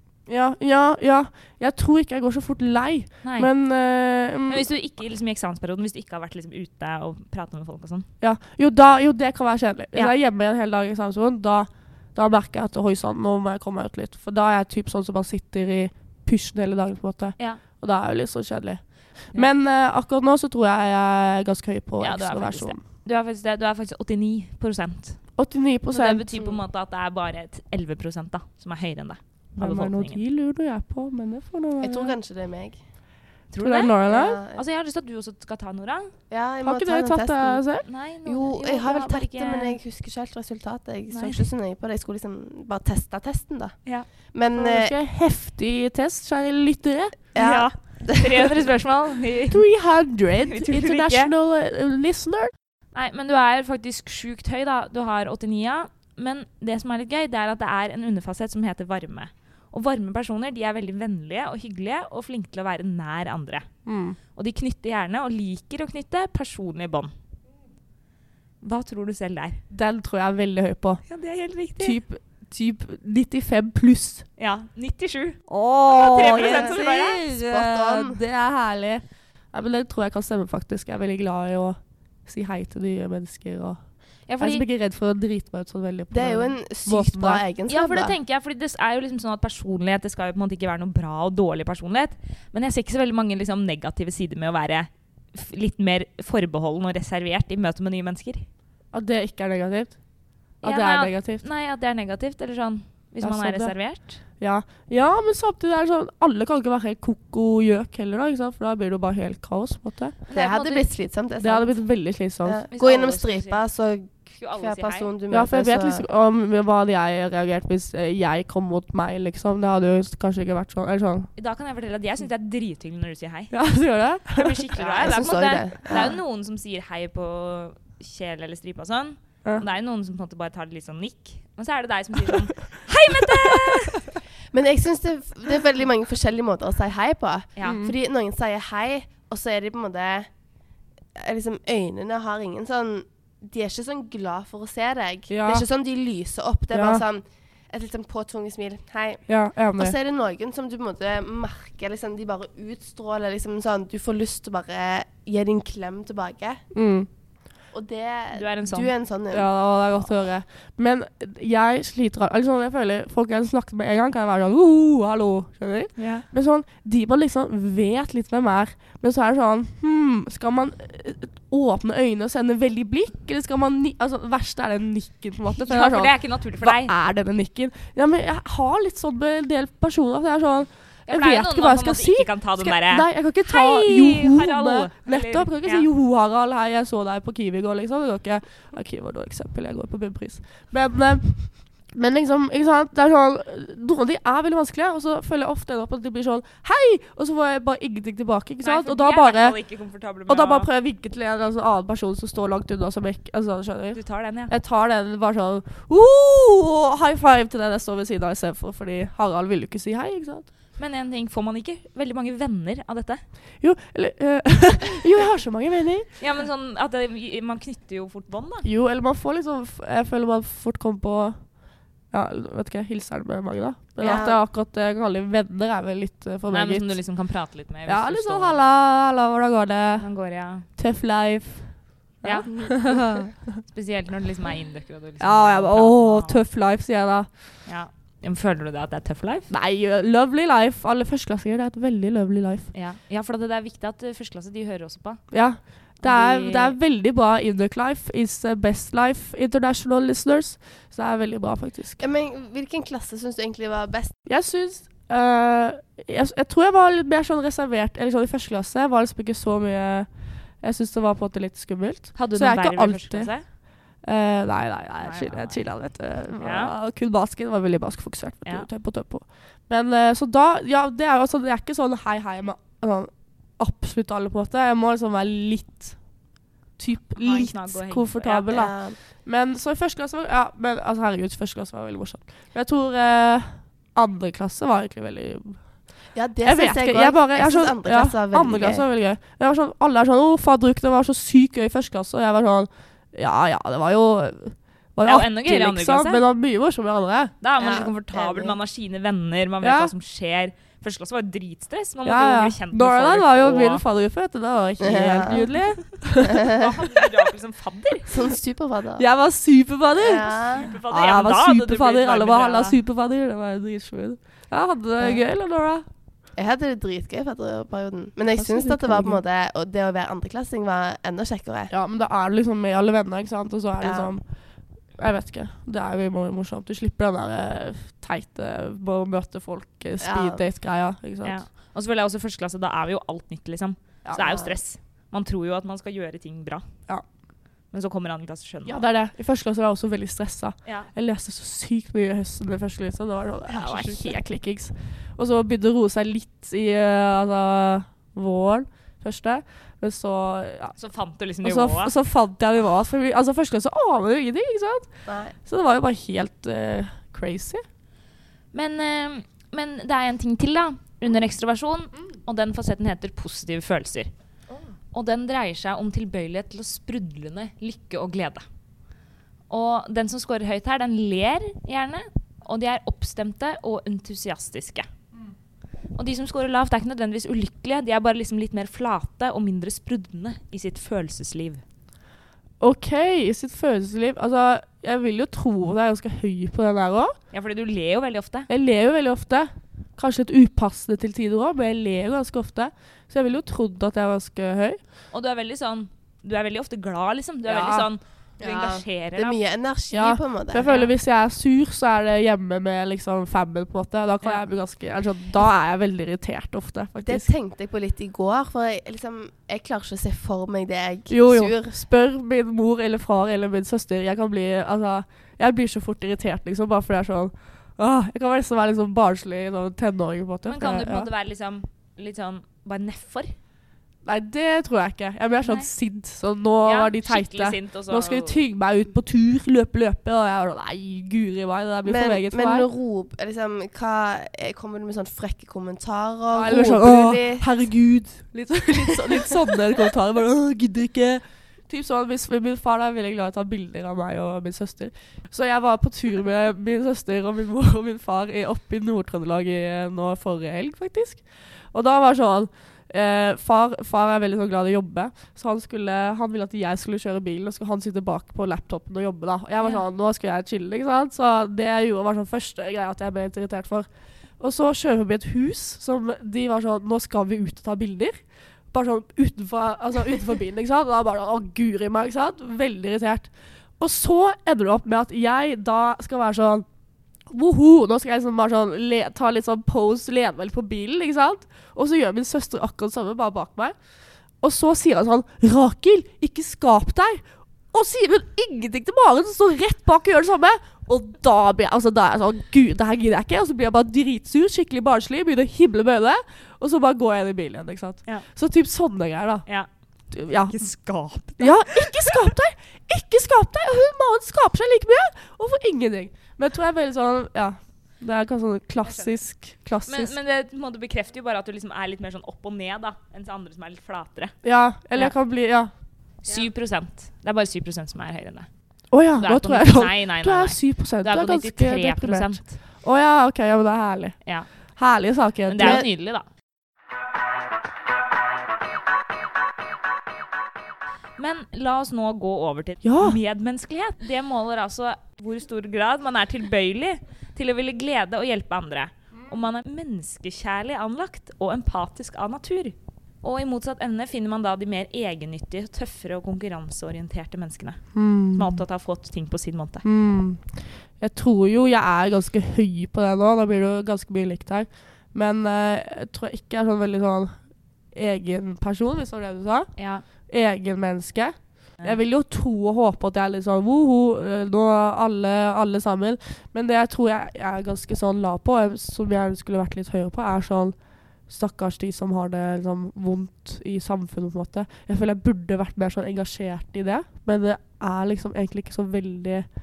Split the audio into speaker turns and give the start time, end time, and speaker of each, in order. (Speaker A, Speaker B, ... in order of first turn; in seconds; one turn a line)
Speaker A: 0.3-4.7
Speaker B: 3.2-3.5
Speaker B: 4.5-8.1
Speaker A: 8.2-22.8
Speaker B: 22.0-25.2
Speaker A: 25.4-26.3
Speaker B: 25.9-30.2
Speaker A: 29.6-32.2
Speaker C: 31.8-32.8
Speaker B: 33.5-34.0
Speaker A: 33.6-34.4
Speaker C: 34.1-34.6
Speaker B: 34.5-36.1
Speaker C: 36.3-37.6
Speaker A: 36.6-37.9
Speaker B: 37.9-39.8
Speaker C: 38.2-44.9
Speaker B: 41.1-41.5
Speaker A: 44.5-47.2
Speaker C: 47.4-48.2
Speaker B: 47.4-49.6
Speaker A: 49.5-52.5
Speaker B: 50.5-51.3
Speaker B: 52.9-63.7
Speaker A: 63.9-64.2
Speaker B: 64.3-67.1
Speaker B: 68.6-69.6
Speaker A: 69.7-71.0
Speaker B: 71.1-72.0
Speaker A: 71.8-74.3
Speaker B: 74.4-77.2
Speaker A: 75.5-83.8
Speaker C: 76.2-78.2
Speaker B: 84.3-84.7
Speaker A: 84.4-87.4
Speaker C: 86.1-88.2
Speaker B: 87.7-98.5
Speaker A: 98.9-100.0
Speaker B: 100.6-104.2
Speaker A: 100.6-101.4
Speaker A: 103.2-103.8
Speaker A: 104.3-110.2
Speaker B: 110.3-110.9
Speaker C: 110.3-111.8
Speaker A: 111.4-112.6
Speaker C: 112.5-116.0
Speaker B: 112.7-113.6
Speaker B: 114.3-115.1
Speaker A: 115.3-121.3
Speaker B: 121.4-123.5
Speaker A: 123.5-124.6
Speaker B: 124.3-134.1
Speaker C: 124.8-126.2
Speaker A: 133.3-133.7
Speaker C: 134.5-140.3
Speaker B: 137.6-137.8
Speaker A: 137.6-137.9
Speaker C: 141.2-156.7
Speaker A: 145.3-145.7
Speaker A: 146.7-147.0
Speaker A: 149.3-150.0
Speaker A: 156.7-157.1
Speaker C: 157.7-159.5
Speaker B: 158.3-158.9
Speaker A: 159.3-199.6
Speaker B: 166.0-166.3
Speaker B: 175.6-176.9
Speaker B: 181.1-185.9
Speaker B: 198.6-200.7
Speaker A: 200.3-210.5
Speaker B: 203.9-204.5
Speaker B: 210.8-213.2
Speaker A: 213.6-216.1
Speaker B: 216.2-218.7
Speaker A: 218.6-221.5
Speaker A: 222.1-226.9
Speaker B: 224.0-224.3
Speaker C: 224.0-224.4
Speaker B: 226.5-228.6
Speaker A: 227.9-230.1
Speaker B: 230.0-230.7
Speaker A: 230.7-233.3
Speaker B: 232.2-232.5
Speaker C: 232.5-232.8
Speaker B: 233.7-236.4
Speaker A: 235.2-237.3
Speaker B: 237.7-239.5
Speaker A: 239.5-242.7
Speaker B: 242.7-245.2
Speaker A: 245.3-252.0
Speaker B: 246.0-246.8
Speaker C: 252.0-254.2
Speaker A: 254.3-260.1
Speaker A: 260.6-263.3
Speaker B: 262.1-263.4
Speaker A: 264.0-276.0
Speaker B: 265.0-265.7
Speaker B: 266.4-266.7
Speaker A: 276.8-285.6
Speaker B: 277.2-278.6
Speaker C: 278.5-279.0
Speaker C: 286.1-288.9
Speaker A: 286.4-297.3
Speaker B: 295.1-296.2
Speaker B: 297.4-303.8
Speaker C: 297.6-298.6
Speaker A: 299.6-299.9
Speaker A: 302.1-306.5
Speaker C: 304.8-305.5
Speaker B: 306.2-308.2
Speaker C: 306.3-306.6
Speaker C: 308.1-309.1
Speaker A: 309.0-315.9
Speaker C: 310.0-310.7
Speaker B: 310.5-312.8
Speaker C: 316.4-321.7
Speaker A: 318.4-319.2
Speaker A: 321.7-324.2
Speaker C: 323.8-324.1
Speaker A: 325.0-331.4
Speaker C: 330.0-330.4
Speaker B: 331.2-336.6
Speaker C: 334.2-334.6
Speaker B: 337.7-338.8
Speaker A: 338.7-350.8
Speaker B: 350.8-351.9
Speaker A: 351.4-357.6
Speaker C: 355.1-355.4
Speaker B: 358.5-364.1
Speaker B: 364.9-368.4
Speaker B: 369.5-374.9
Speaker B: 375.9-381.6
Speaker A: 382.6-387.1
Speaker B: 387.3-388.5
Speaker A: 388.5-394.8
Speaker B: 395.1-399.4
Speaker A: 397.5-397.9
Speaker C: 398.4-400.7
Speaker A: 399.9-407.3
Speaker B: 400.6-400.9
Speaker C: 407.0-411.8
Speaker A: 411.1-421.1
Speaker B: 420.5-423.3
Speaker A: 424.1-432.7
Speaker B: 426.6-428.4
Speaker C: 431.9-437.5
Speaker A: 436.3-463.9
Speaker C: 438.9-439.4
Speaker A: 464.4-468.1
Speaker A: 468.7-476.7
Speaker A: 477.3-483.8
Speaker A: 484.4-499.4
Speaker A: 500.1-500.6
Speaker B: 500.3-502.3
Speaker A: 501.4-510.1
Speaker B: 508.8-509.2
Speaker B: 509.9-514.4
Speaker A: 514.4-515.7
Speaker B: 516.2-518.5
Speaker A: 518.9-524.2
Speaker B: 519.1-522.5
Speaker A: 524.8-525.9
Speaker B: 525.5-526.2
Speaker C: 525.6-525.9
Speaker B: 531.2-549.9
Speaker A: 532.8-533.2
Speaker A: 547.9-548.5
Speaker A: 549.8-550.5
Speaker A: 551.0-557.4
Speaker A: 557.9-559.7
Speaker B: 559.8-560.0
Speaker A: 560.2-570.8
Speaker A: 571.3-579.5